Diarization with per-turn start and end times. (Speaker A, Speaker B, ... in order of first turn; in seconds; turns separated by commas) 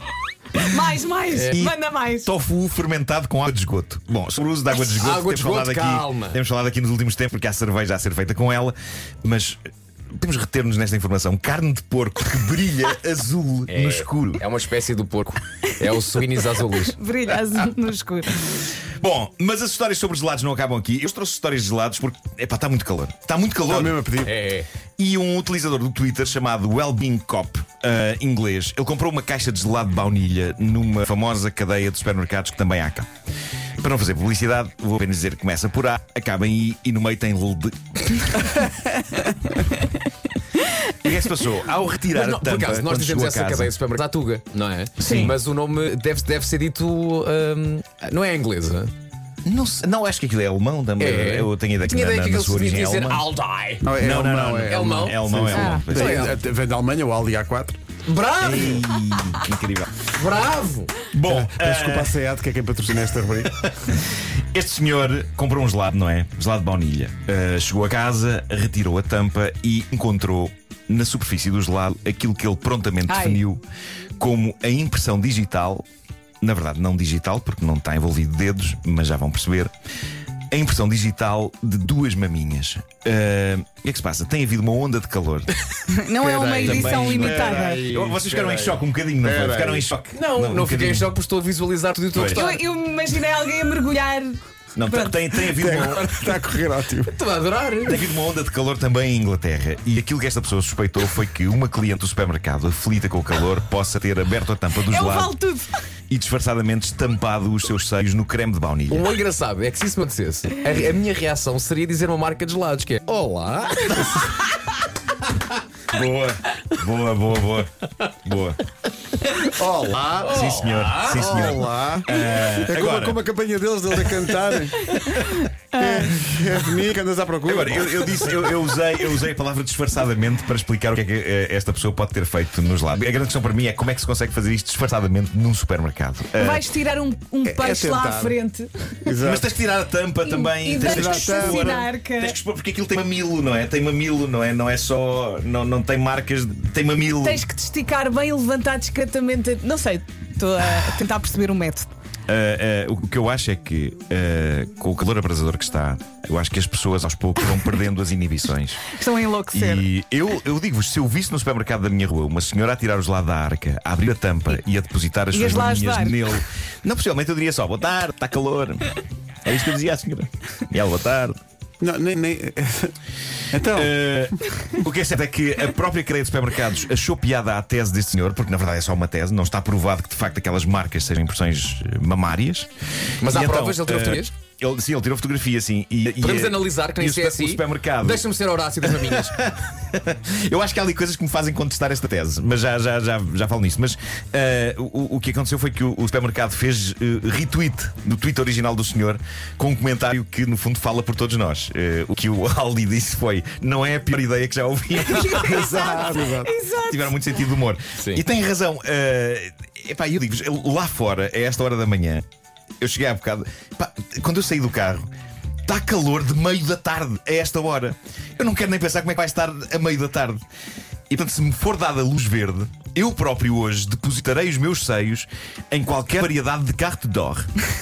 Speaker A: 0.6-2.3, Speaker B: 1.3-1.6, Speaker C: 1.5-9.6, Speaker B: 4.8-6.4, Speaker C: 10.1-14.4, Speaker B: 13.7-17.0, Speaker A: 16.7-18.5, Speaker C: 18.8-24.0, Speaker D: 23.7-24.3, Speaker B: 24.2-24.7, Speaker C: 25.0-33.1, Speaker C: 33.8-38.6, Speaker C: 40.9-43.7, Speaker B: 42.1-48.9, Speaker C: 45.0-45.4, Speaker A: 45.0-45.3, Speaker C: 49.4-53.3, Speaker B: 51.0-53.9, Speaker D: 53.8-57.8, Speaker C: 53.9-56.4, Speaker B: 54.7-55.2, Speaker A: 55.5-55.9, Speaker B: 55.9-56.4, Speaker B: 58.0-58.9, Speaker C: 58.4-60.0, Speaker B: 60.1-60.9, Speaker C: 61.1-62.2, Speaker D: 61.2-63.6, Speaker C: 63.6-73.6, Speaker A: 73.1-73.4, Speaker C: 74.2-75.8, Speaker C: 76.4-79.7, Speaker C: 80.5-85.5, Speaker A: 85.9-87.8, Speaker D: 86.2-88.7, Speaker C: 86.6-91.1, Speaker B: 86.8-88.4, Speaker D: 89.2-89.9, Speaker B: 90.1-92.6, Speaker C: 92.1-92.4, Speaker A: 92.2-94.4, Speaker C: 94.8-96.4, Speaker A: 94.9-95.3, Speaker D: 95.5-97.2, Speaker B: 97.0-98.0, Speaker C: 97.8-105.3, Speaker A: 104.8-105.7, Speaker C: 106.1-109.1, Speaker B: 108.9-114.5, Speaker C: 115.9-118.6, Speaker D: 119.5-120.4, Speaker B: 120.2-121.6, Speaker C: 120.2-123.2, Speaker D: 121.1-125.0, Speaker C: 123.9-125.4, Speaker A: 125.2-126.1, Speaker D: 125.7-128.4, Speaker C: 127.4-136.7, Speaker A: 136.4-138.7, Speaker D: 137.4-138.3, Speaker D: 139.0-139.5, Speaker C: 139.2-147.4, Speaker A: 140.2-142.3, Speaker D: 140.8-141.7, Speaker A: 147.2-151.9, Speaker C: 152.3-158.9, Speaker A: 158.9-159.8, Speaker C: 159.5-171.4, Speaker A: 165.3-166.3, Speaker D: 171.8-172.9, Speaker D: 173.5-173.9, Speaker C: 173.6-182.7, Speaker B: 183.2-184.3, Speaker C: 183.2-188.3, Speaker B: 186.2-189.4, Speaker C: 188.8-206.2, Speaker A: 205.0-207.2, Speaker D: 205.4-206.5, Speaker C: 206.8-212.2, Speaker C: 212.8-215.1, Speaker C: 215.7-220.4, Speaker C: 221.1-227.5